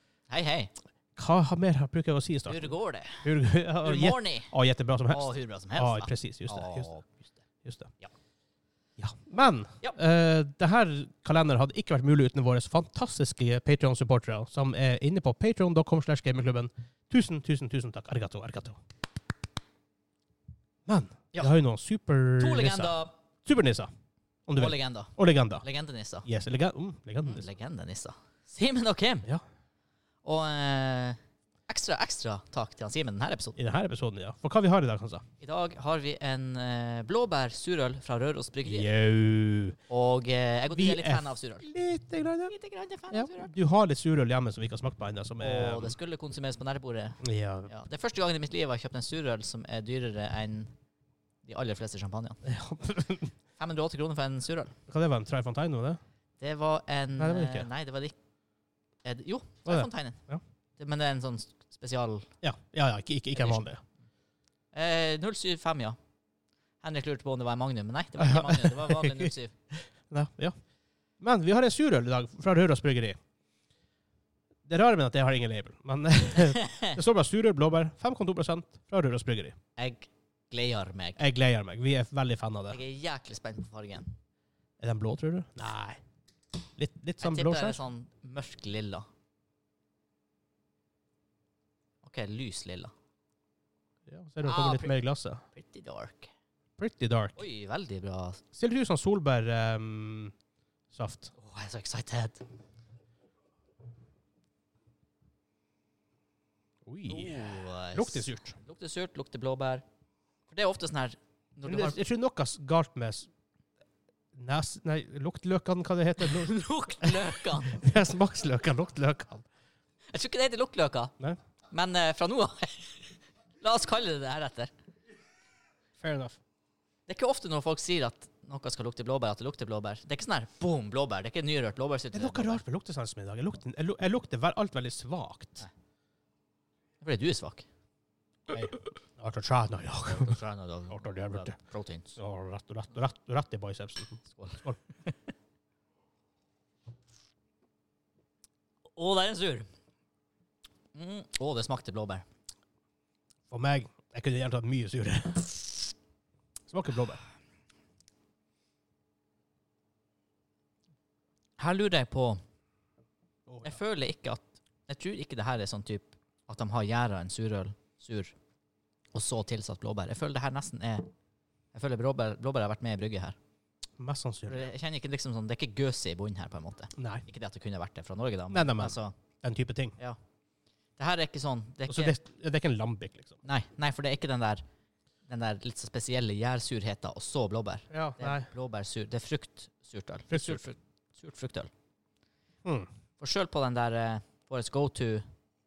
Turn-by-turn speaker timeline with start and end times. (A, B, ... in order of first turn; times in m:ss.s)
0:00.3-0:00.7 A
0:01.2-0:02.6 B
0:02.5-0:03.3 A
0:03.2-0:06.9 B
0:03.8-0:04.5 A
0:05.1-0:07.3 A
0:07.6-0:07.9 B
0:09.0-0:18.8 B
0:20.9-0:23.9 B
0:22.4-0:23.1 A
0:24.5-0:25.6 B
0:24.6-0:26.2 A
0:26.2-0:27.4 B
0:27.2-0:29.3 A
0:30.2-0:33.6 A
0:33.6-0:35.2 B
0:35.4-0:38.9 A
0:38.6-0:39.8 B
0:39.9-0:41.7 A
0:40.7-0:42.5 B
0:42.4-0:43.5 A
0:43.1-0:46.0 B
0:45.4-0:50.7 A
0:47.2-0:47.7 B
0:51.4-0:52.4 A
0:52.4-0:53.3 B
0:53.6-0:54.7 A
0:54.9-0:56.0 B
0:56.4-0:58.2 A
0:57.2-0:57.7 B
0:59.0-1:00.2 A
0:59.7-1:00.4 B
1:00.8-1:02.3 A
1:02.4-1:03.8 B
1:03.3-1:03.7 A
1:04.7-1:06.0 A
1:06.8-1:09.5 A
1:08.2-1:10.5 B
1:11.2-1:13.2 B
1:14.6-1:19.5 B
1:16.4-1:17.0 A
1:19.8-1:21.2 A
1:21.2-1:22.8 B
1:22.7-1:24.1 A
1:24.8-1:26.0 B
1:26.8-1:27.8 B
1:27.2-1:29.1 A
1:32.0-1:32.9 A
1:34.1-1:35.4 B
1:34.4-1:34.9 A
1:35.5-1:36.3 A
1:36.8-1:37.4 B
1:37.4-1:38.4 A
1:38.5-1:40.3 B
1:40.9-1:41.3 B
1:41.4-1:42.4 A
1:46.8-1:48.6 B
1:47.1-1:49.8 A
1:50.5-1:52.0 A
1:51.6-1:53.3 B
1:54.3-1:59.4 B
1:56.2-1:57.8 A
2:00.1-2:01.1 A
2:01.7-2:04.7 A
2:06.0-2:06.4 B
2:07.1-2:12.6 A
2:12.1-2:15.6 B
2:17.0-2:17.6 A
2:18.5-2:18.8 A
2:19.2-2:20.4 B
2:20.0-2:22.1 A
2:20.9-2:21.5 B
2:22.1-2:24.7 B
2:24.3-2:25.1 A
2:28.9-2:29.7 A
2:30.9-2:32.2 A
2:33.5-2:35.9 B
2:36.7-2:37.2 B
2:41.6-2:42.4 A
2:43.5-2:43.8 B
2:43.6-2:48.3 A
2:49.1-2:51.1 A
2:51.7-2:53.4 A
2:54.0-2:54.6 B
2:54.5-2:59.1 A
2:57.0-2:57.2 B
2:58.5-3:00.0 B
3:01.0-3:02.2 A
3:01.9-3:03.4 B
3:03.4-3:04.6 A
3:05.3-3:11.7 A
3:07.9-3:08.4 B
3:10.3-3:10.6 B
3:13.2-3:15.2 A